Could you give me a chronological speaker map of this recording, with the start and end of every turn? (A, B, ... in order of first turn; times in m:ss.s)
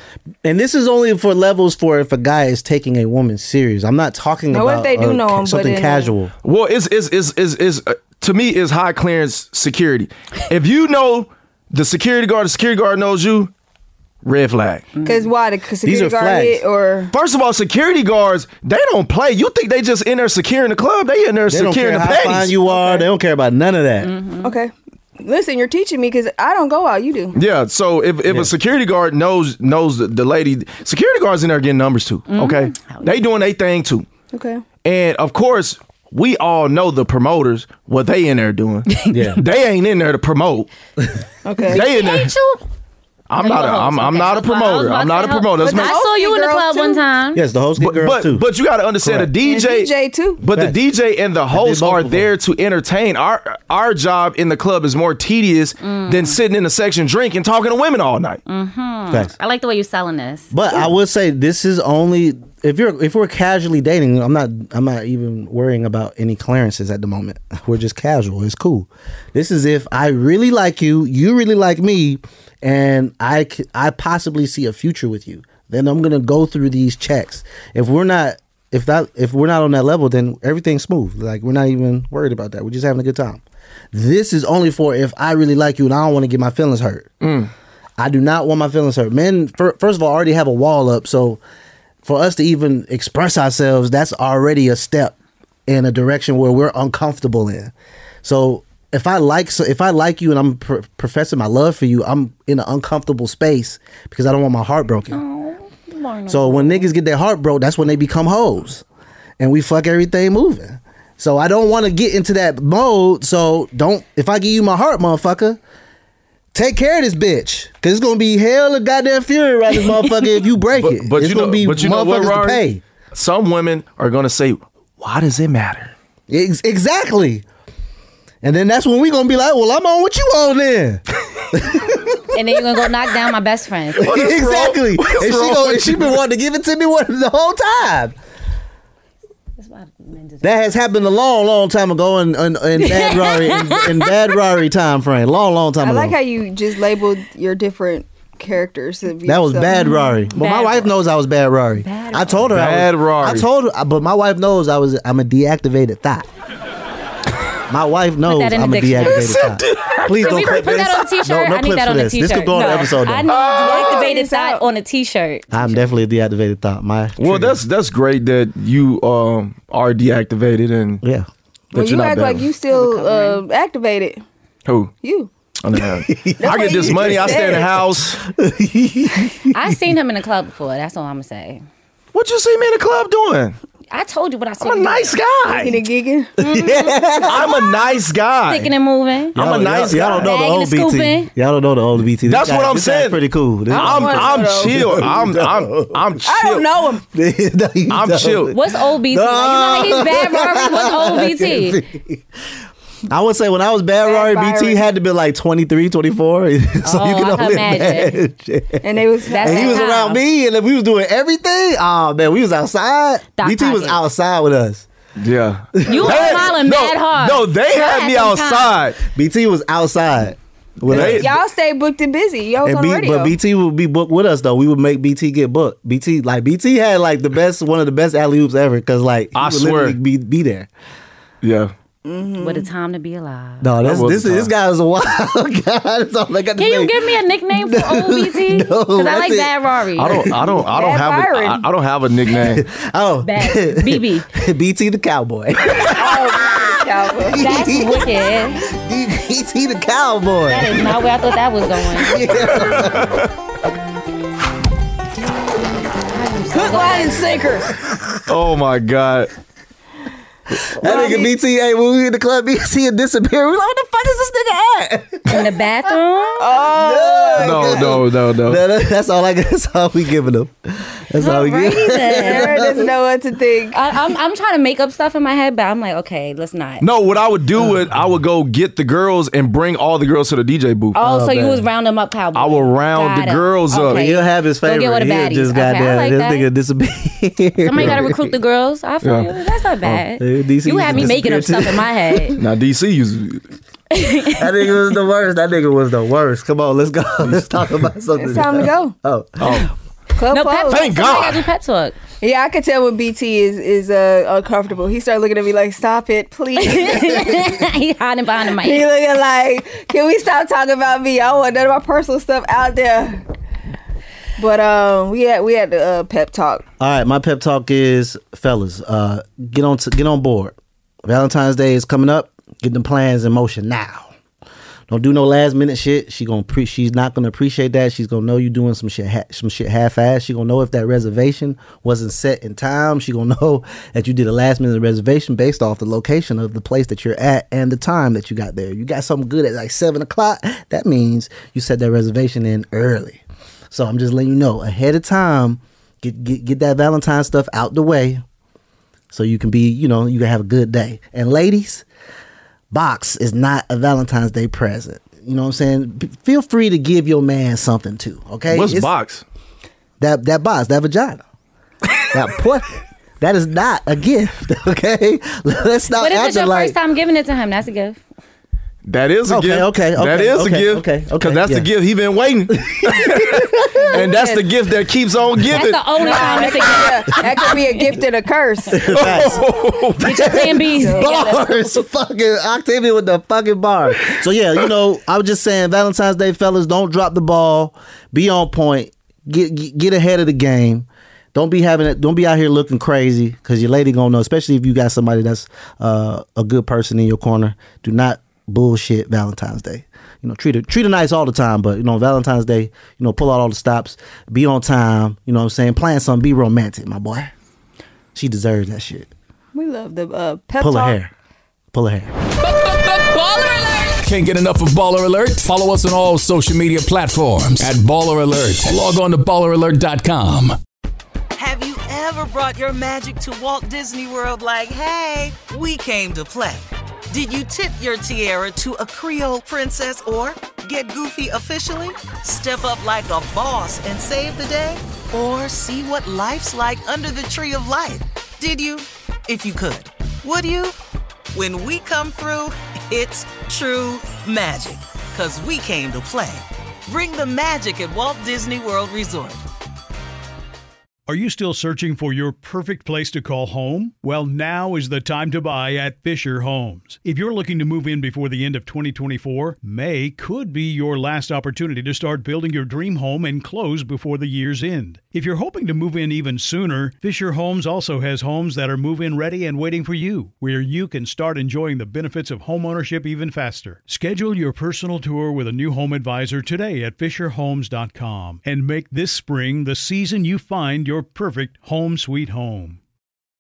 0:00.4-0:06.3 A
0:04.5-0:06.1 B
0:06.4-0:13.5 C
0:14.2-0:14.9 C
0:15.0-0:15.3 D
0:15.0-0:17.1 B
0:15.8-0:16.6 A
0:17.1-0:22.6 C
0:21.5-0:24.1 A
0:22.6-0:23.1 B
0:24.0-0:24.6 D
0:24.4-0:27.4 B
0:27.3-0:34.1 C
0:32.3-0:33.1 D
0:34.3-0:34.6 B
0:34.8-0:40.7 C
0:39.1-0:39.4 A
0:41.4-0:41.8 B
0:41.7-0:42.6 D
0:41.7-0:42.3 C
0:43.3-0:46.0 C
0:43.4-0:47.4 D
0:45.6-0:47.0 B
0:47.3-0:48.4 A
0:47.8-0:58.4 C
0:49.0-0:49.3 A
0:49.4-0:50.4 B
0:51.5-0:52.3 A
0:55.8-0:56.4 D
0:58.5-1:00.8 D
1:00.5-1:23.4 A
1:23.9-1:27.1 A
1:27.2-1:27.5 C
1:28.0-1:31.4 A
1:32.0-1:35.2 A
1:35.7-1:45.2 A
1:45.1-1:46.9 D
1:46.3-1:48.8 A
1:49.4-1:55.6 A
1:56.5-2:02.8 A
2:00.8-2:05.9 C
2:06.3-2:07.4 A
2:08.4-2:12.2 A
2:12.3-2:14.0 D
2:14.0-2:18.2 A
2:14.0-2:16.2 C
2:19.6-2:20.6 D
2:20.4-2:26.2 A
2:22.8-2:24.2 D
2:25.8-2:29.9 B
2:29.2-2:36.3 A
2:29.7-2:30.9 D
2:31.8-2:32.5 D
2:32.5-2:33.5 C
2:37.7-2:43.3 A
2:38.3-2:39.4 D
2:39.0-2:41.0 C
2:40.1-2:46.0 D
2:43.3-2:44.0 C
2:43.6-2:44.6 B
2:45.5-2:47.6 A
2:47.2-2:51.0 C
2:51.0-2:51.3 A
2:51.7-2:52.5 C
2:51.7-2:54.2 B
2:52.7-2:53.4 D
2:54.7-2:54.9 C
2:55.0-2:55.3 B
2:55.6-2:58.2 C
2:55.8-2:57.6 A
2:56.4-2:57.8 B
2:58.2-2:59.7 A
2:59.5-3:01.6 D
3:02.1-3:03.6 C
3:03.9-3:05.2 D
3:04.6-3:05.8 C
3:05.5-3:07.0 B
3:06.4-3:07.6 A
3:07.2-3:08.7 C
3:08.5-3:09.4 D
3:09.4-3:10.3 C
3:09.4-3:16.2 A
3:10.2-3:11.3 D
3:12.2-3:16.7 C
3:13.7-3:15.0 B
3:16.2-3:17.0 B
3:17.1-3:22.2 A
3:17.9-3:18.5 C
3:18.5-3:21.8 D
3:23.1-3:34.9 A
3:24.0-3:24.9 B
3:26.8-3:28.2 D
3:28.8-3:29.9 B
3:29.3-3:30.2 D
3:33.4-3:34.0 D
3:35.2-3:39.0 C
3:35.8-3:36.5 A
3:35.9-3:38.8 D
3:39.0-3:41.4 A
3:40.8-3:41.3 C
3:41.0-3:43.4 B
3:42.6-3:50.7 A
3:49.4-3:50.0 C
3:51.4-3:51.7 C
3:52.0-3:52.7 B
3:52.4-3:53.7 D
3:53.6-4:00.6 A
3:53.8-3:54.5 C
3:56.6-4:00.3 D
4:00.0-4:02.6 C
4:00.6-4:01.7 B
4:02.4-4:11.0 A
4:03.2-4:04.3 D
4:06.0-4:07.5 B
4:07.4-4:08.6 D
4:10.5-4:12.2 D
4:12.0-4:13.3 A
4:12.4-4:13.3 C
4:16.1-4:17.5 D
4:16.5-4:17.7 B
4:17.8-4:18.1 A
4:18.3-4:19.3 C
4:20.8-4:25.5 A
4:20.8-4:21.3 B
4:20.9-4:21.2 D
4:25.3-4:26.6 D
4:26.4-4:28.0 B
4:26.6-4:32.9 A
4:27.4-4:28.6 C
4:31.2-4:32.6 D
4:32.2-4:33.8 B
4:33.7-4:36.8 D
4:36.8-4:41.0 C
4:40.9-4:46.5 D
4:41.0-4:41.6 A
4:42.3-4:44.1 C
4:43.9-4:48.3 A
4:47.7-4:52.4 D
4:49.0-4:49.3 C
4:49.9-4:52.4 A
4:52.4-4:53.4 C
4:53.9-4:54.7 D
4:54.4-4:59.7 A
4:58.2-4:59.0 B
4:59.4-4:59.7 C
5:00.2-5:00.9 B
5:00.3-5:02.0 D
5:00.7-5:01.5 C
5:02.2-5:07.6 B
5:06.6-5:08.9 D
5:08.6-5:13.2 B
5:14.4-5:16.6 B
5:16.8-5:24.1 A
5:24.9-5:48.2 A
5:49.1-5:51.8 A
5:52.7-5:58.9 A
5:58.5-5:59.2 C
6:00.0-6:01.2 A
6:02.0-6:06.8 A
6:06.0-6:08.0 D
6:08.9-6:16.3 C
6:09.3-6:11.7 A
6:12.5-6:14.2 A
6:14.0-6:14.5 B
6:15.5-6:18.0 D
6:16.0-6:18.8 B
6:18.7-6:19.5 A
6:18.9-6:20.4 C
6:20.0-6:21.8 D
6:20.0-6:47.3 A
6:20.8-6:21.2 B
6:48.2-6:49.1 A
6:49.5-6:51.0 B
6:50.6-6:51.1 A
6:51.7-6:52.1 A
6:52.4-7:00.6 E
7:01.4-7:20.8 F
7:21.3-7:29.4 F
7:31.1-8:02.8 G